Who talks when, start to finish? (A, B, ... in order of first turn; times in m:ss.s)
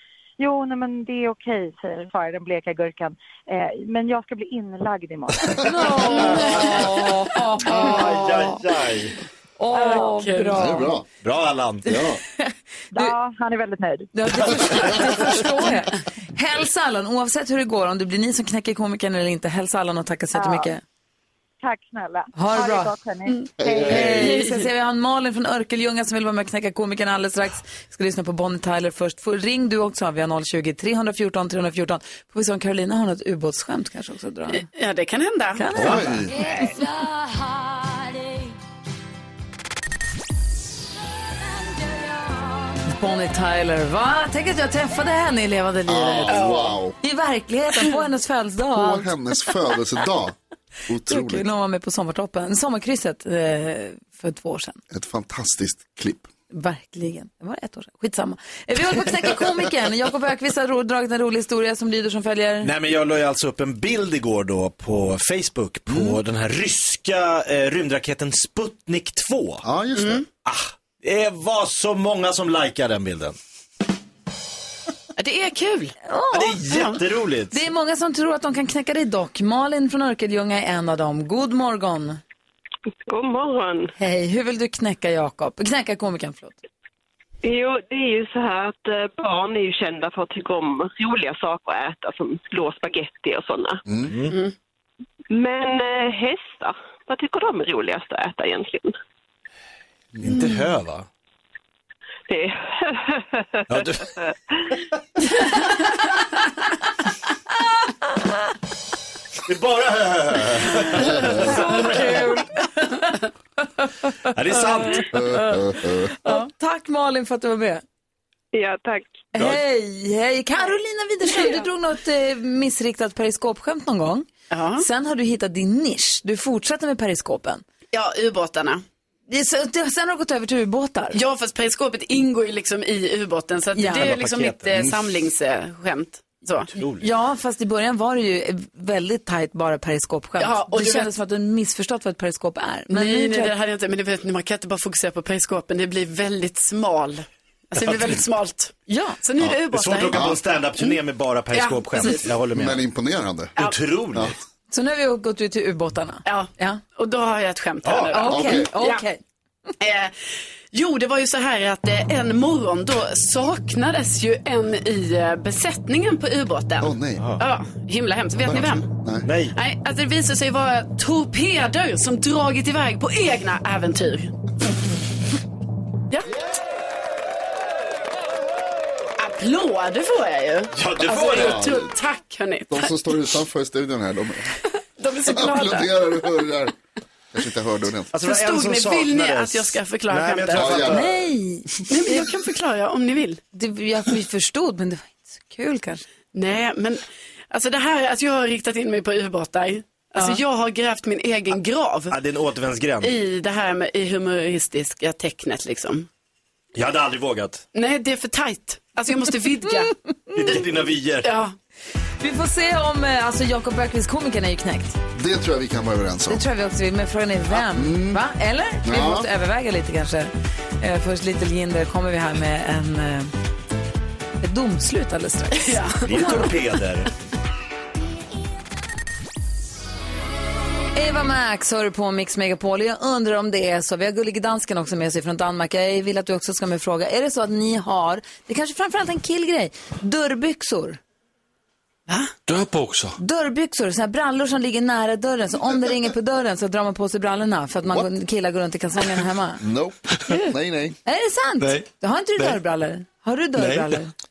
0:00.4-0:06.3 A
0:05.6-0:08.6 B
0:06.2-0:06.7 C
0:07.7-0:08.5 D
0:07.7-0:09.2 C
0:09.6-0:10.9 B
0:09.7-0:10.6 D
0:10.6-0:11.0 E
0:11.2-0:12.0 C
0:11.8-0:12.2 E
0:12.4-0:13.1 B
0:12.9-0:14.1 A
0:14.2-0:20.8 B
0:14.5-0:15.1 C
0:20.3-0:20.7 A
0:21.6-0:24.4 A
0:22.4-0:22.9 B
0:23.6-0:24.3 E
0:23.8-0:34.6 B
0:24.2-0:24.6 D
0:34.5-0:36.1 D
0:35.6-0:37.1 B
0:35.8-0:36.4 E
0:42.8-0:46.4 B
0:45.9-0:47.0 E
0:46.3-0:46.8 D
0:47.0-0:49.1 B
0:48.7-0:50.4 E
0:50.9-0:51.4 E
0:51.1-0:54.8 B
0:54.9-0:56.3 E
0:56.5-1:02.7 B
1:02.6-1:09.6 C
1:09.6-1:10.2 E
1:10.0-1:10.2 D
1:10.4-1:13.4 C
1:15.2-1:16.0 D
1:16.0-1:16.8 B
1:16.3-1:17.6 C
1:17.5-1:22.2 B
1:23.1-1:23.9 F
1:24.0-1:26.6 B
1:27.4-1:33.8 F
1:33.9-1:34.1 E
1:34.1-1:34.4 C
1:35.3-1:39.0 F
1:40.2-1:41.1 C
1:42.3-1:43.4 F
1:43.7-1:44.1 C
1:49.4-1:52.2 C
1:51.2-1:51.6 E
1:51.4-1:53.1 B
1:54.3-1:55.2 C
1:54.6-1:55.6 B
1:55.1-1:56.2 E
1:56.2-1:57.8 B
1:58.5-1:59.3 F
1:59.3-2:07.6 B
2:04.5-2:04.9 D
2:07.9-2:08.8 D
2:09.3-2:11.2 B
2:11.1-2:16.7 D
2:13.8-2:14.1 B
2:13.9-2:15.1 C
2:16.7-2:17.1 C
2:17.0-2:23.5 B
2:20.4-2:21.1 D
2:22.9-2:30.4 D
2:27.8-2:28.2 C
2:28.9-2:29.2 B
2:29.4-2:32.8 C
2:30.1-2:30.4 E
2:31.5-2:32.3 D
2:32.5-2:33.5 E
2:33.6-2:34.4 C
2:34.7-2:36.8 B
2:36.3-2:39.0 D
2:37.8-2:38.2 C
2:38.1-2:39.2 B
2:38.2-2:38.7 E
2:39.8-2:40.2 D
2:40.7-2:48.9 D
2:46.8-2:47.3 E
2:47.2-2:47.4 C
2:48.5-2:49.3 E
2:49.2-2:49.6 C
2:49.6-2:54.3 D
2:59.2-3:02.9 D
3:00.7-3:01.7 C
3:01.3-3:01.9 E
3:02.7-3:04.6 E
3:05.0-3:05.9 D
3:05.3-3:06.8 E
3:07.3-3:08.1 E
3:08.1-3:11.1 C
3:08.2-3:10.7 D
3:10.5-3:11.1 E
3:10.9-3:12.2 B
3:11.9-3:13.4 D
3:13.5-3:16.0 B
3:16.3-3:22.2 D
3:22.1-3:23.2 C
3:23.0-3:26.1 D
3:26.8-3:27.6 C
3:27.8-3:29.9 D
3:30.3-3:31.3 C
3:31.2-3:31.5 D
3:32.2-3:35.0 B
3:35.1-3:36.4 E
3:36.3-3:43.3 B
3:37.5-3:38.2 E
3:38.8-3:39.3 E
3:44.4-3:46.4 B
3:45.5-3:46.4 D
3:46.0-3:47.1 C
3:50.9-4:01.0 B
4:02.1-4:02.3 D
4:02.5-4:03.2 G
4:03.2-4:09.6 B
4:09.6-4:11.0 E
4:11.1-4:14.1 B
4:11.6-4:12.6 G
4:13.6-4:14.0 G